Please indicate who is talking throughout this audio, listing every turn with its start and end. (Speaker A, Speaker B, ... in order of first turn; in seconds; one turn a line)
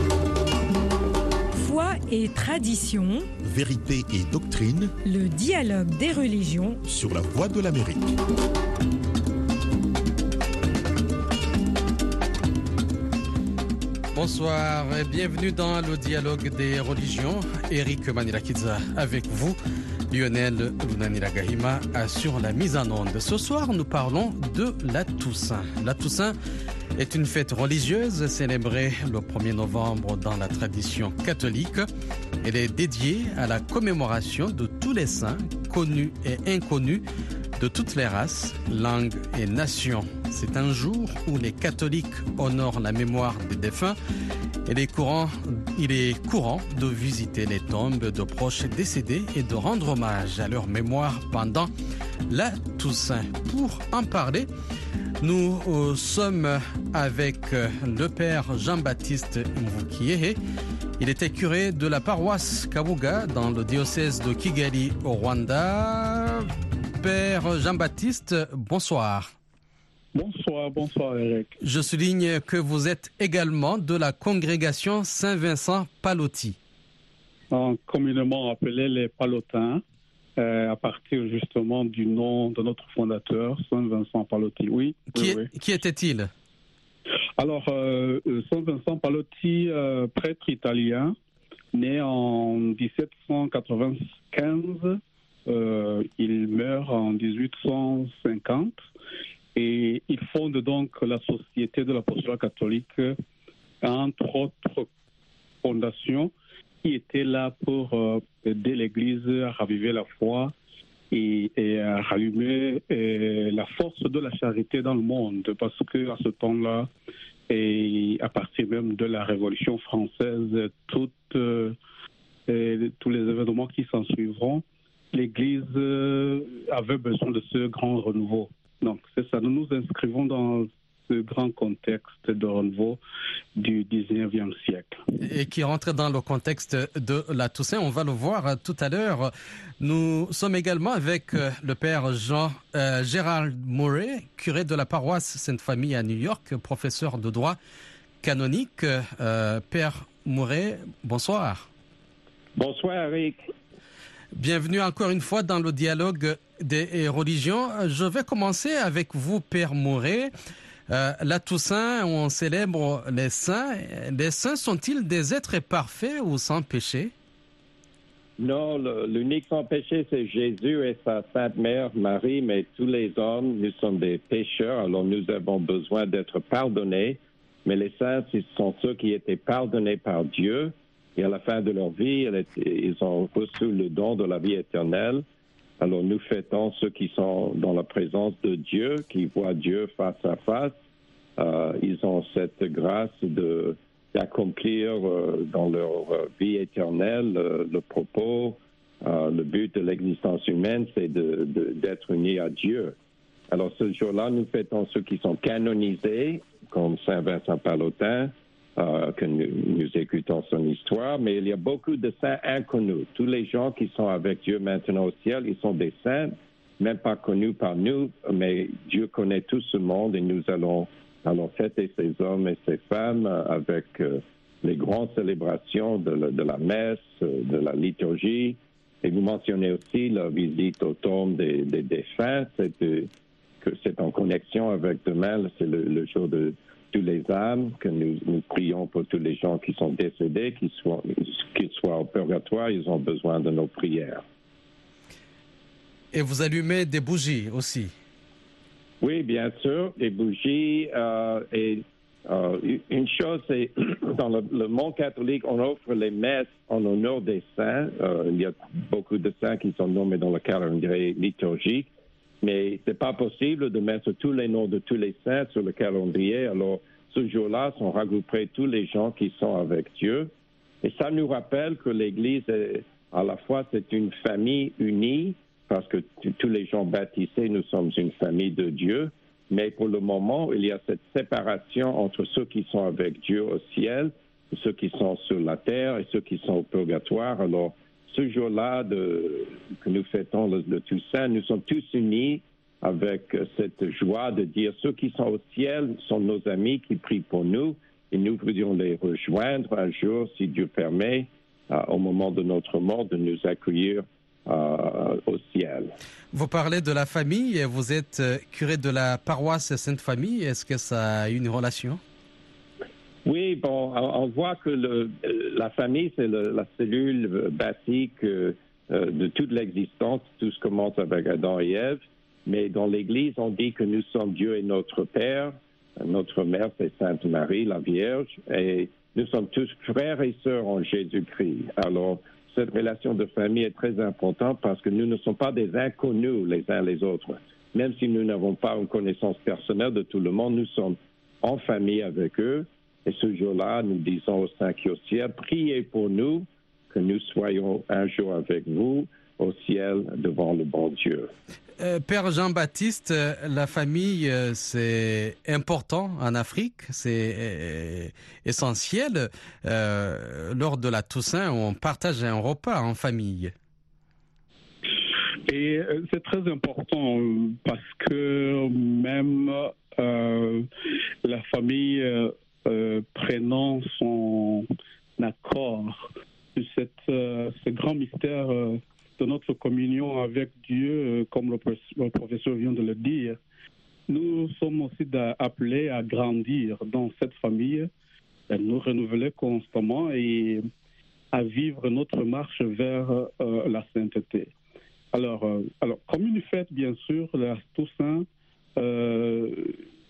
Speaker A: 1.5-3.3
Speaker B: 3.4-5.0
Speaker A: 5.0-6.8
Speaker B: 6.9-8.2
Speaker C: 14.1-19.6
Speaker C: 20.1-26.3
Speaker C: 26.9-31.9
Speaker C: 32.4-37.0
Speaker C: 37.6-44.0
Speaker C: 44.7-51.7
Speaker C: 52.3-54.5
Speaker C: 55.2-60.4
Speaker C: 61.0-69.3
Speaker D: 70.1-71.5
Speaker C: 71.6-76.6
Speaker D: 77.5-79.8
Speaker D: 80.4-85.5
Speaker C: 85.1-86.3
Speaker D: 87.4-91.1
Speaker D: 91.7-98.8
Speaker D: 99.5-103.1
Speaker D: 103.8-104.9
Speaker D: 105.6-106.3
Speaker D: 106.8-110.5
Speaker D: 111.1-116.9
Speaker D: 117.5-121.8
Speaker D: 122.5-133.0
Speaker D: 133.6-135.0
Speaker C: 135.2-147.6
Speaker C: 148.2-151.7
Speaker E: 152.6-153.4
Speaker C: 154.3-160.3
Speaker C: 160.9-167.1
Speaker E: 168.4-185.2
Speaker E: 185.8-190.7
Speaker E: 191.4-203.0
Speaker E: 203.5-233.1
Speaker E: 233.6-244.2
Speaker C: 246.1-247.9
Speaker E: 249.0-261.9
Speaker E: 262.4-270.3
Speaker E: 270.8-305.9
Speaker C: 306.3-312.0
Speaker E: 313.2-351.3
Speaker C: 351.8-363.5
Speaker D: 365.5-370.7
Speaker D: 371.2-374.7
Speaker D: 375.2-383.4
Speaker D: 384.1-387.9
Speaker D: 388.5-390.6
Speaker D: 391.3-394.5
Speaker D: 395.1-398.3
Speaker D: 398.8-399.8